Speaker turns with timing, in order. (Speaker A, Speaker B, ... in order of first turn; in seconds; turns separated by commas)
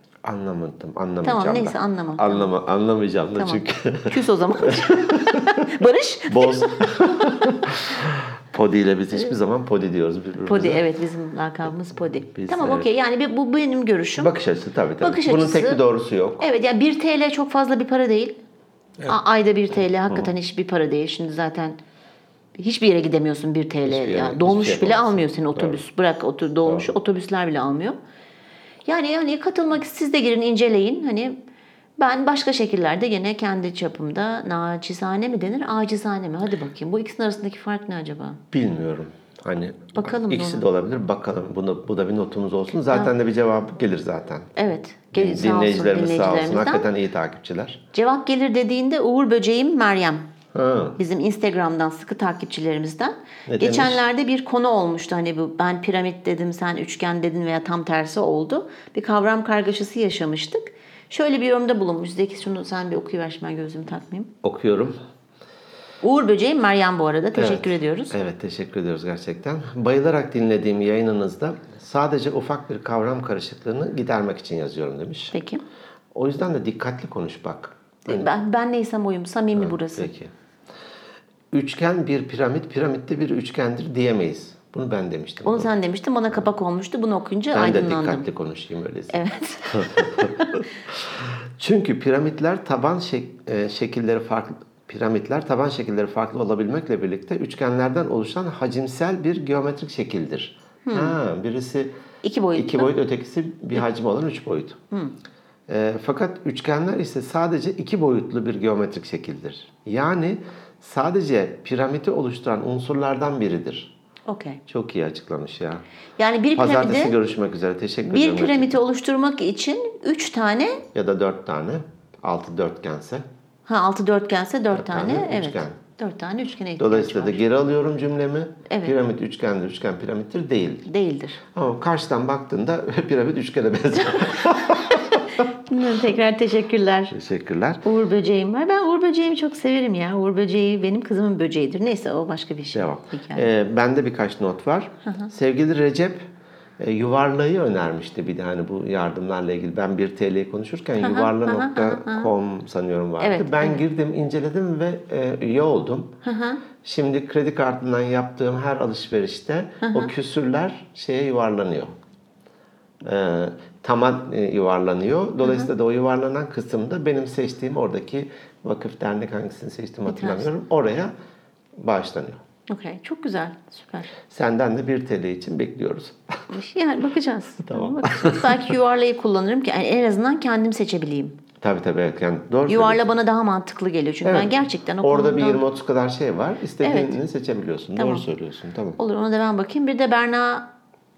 Speaker A: 0.2-5.7, Speaker B: 1.2-2.5, Speaker B: 3.4-7.8, Speaker A: 6.3-10.8, Speaker B: 10.4-14.3, Speaker A: 12.3-12.9, Speaker A: 14.2-16.4, Speaker B: 15.0-15.8, Speaker B: 16.4-18.4, Speaker B: 19.1-21.8, Speaker B: 22.6-28.0, Speaker A: 23.9-25.8, Speaker B: 28.9-31.4, Speaker B: 32.0-38.4, Speaker A: 38.5-44.5, Speaker B: 40.0-40.6, Speaker B: 44.6-46.9, Speaker A: 45.1-47.8, Speaker B: 47.9-50.3, Speaker A: 50.5-51.0, Speaker B: 51.0-64.3, Speaker A: 53.5-54.0, Speaker A: 64.4-65.0, Speaker B: 66.0-68.2, Speaker A: 67.4-75.3, Speaker B: 75.3-75.6, Speaker A: 76.1-78.3, Speaker B: 78.1-80.1, Speaker A: 79.5-80.3, Speaker A: 81.5-85.7, Speaker B: 85.4-88.3, Speaker A: 87.5-101.9, Speaker B: 89.1-90.7, Speaker B: 100.9-101.2, Speaker B: 102.2-102.9, Speaker A: 102.5-104.8, Speaker A: 105.7-113.9, Speaker B: 114.3-114.6, Speaker A: 114.7-115.8, Speaker B: 116.2-117.2, Speaker A: 116.5-118.8, Speaker B: 118.0-120.8, Speaker A: 120.9-123.2, Speaker B: 123.7-127.4, Speaker A: 124.7-125.8, Speaker A: 126.8-130.9, Speaker B: 128.7-129.0, Speaker B: 130.9-131.4, Speaker A: 131.5-135.4, Speaker B: 135.4-137.2, Speaker A: 137.1-137.8, Speaker B: 137.8-143.5, Speaker A: 142.7-146.2, Speaker A: 146.8-156.2, Speaker B: 151.0-152.3, Speaker B: 153.2-153.8, Speaker B: 156.2-156.6, Speaker A: 156.8-161.9, Speaker B: 159.8-160.1, Speaker A: 163.0-171.1, Speaker B: 165.4-165.7, Speaker B: 170.1-170.5, Speaker A: 171.8-172.4, Speaker B: 172.7-174.1, Speaker A: 174.3-176.4, Speaker B: 176.5-181.4, Speaker A: 177.6-178.7, Speaker A: 181.6-183.0, Speaker B: 182.7-185.6, Speaker A: 184.2-189.0, Speaker B: 186.8-187.2, Speaker B: 188.0-188.2, Speaker B: 189.0-190.7